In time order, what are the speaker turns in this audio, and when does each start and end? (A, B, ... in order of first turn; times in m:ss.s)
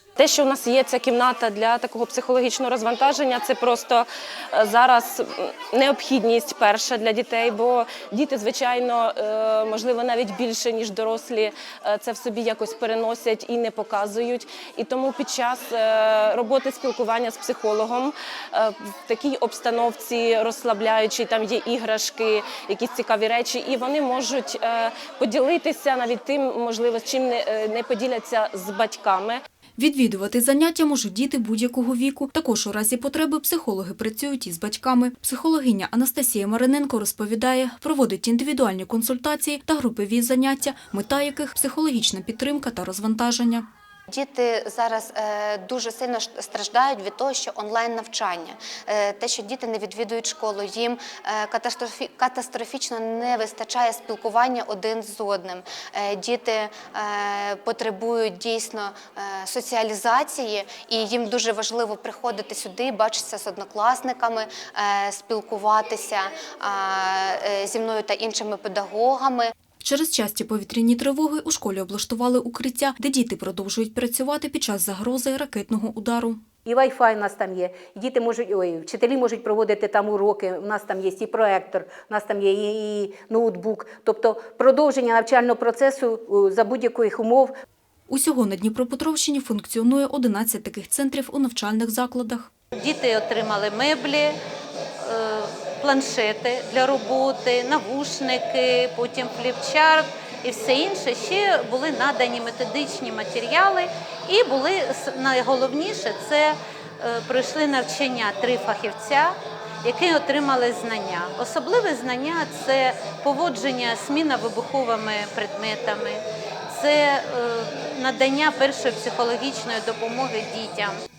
0:00.2-0:29.4 A
0:29.8-0:43.7 B
0:44.1-1:09.5 C
1:09.8-1:16.4 B
1:16.6-1:27.5 D
1:28.1-1:32.5 B
1:32.8-1:34.4 E
1:35.0-2:01.0 E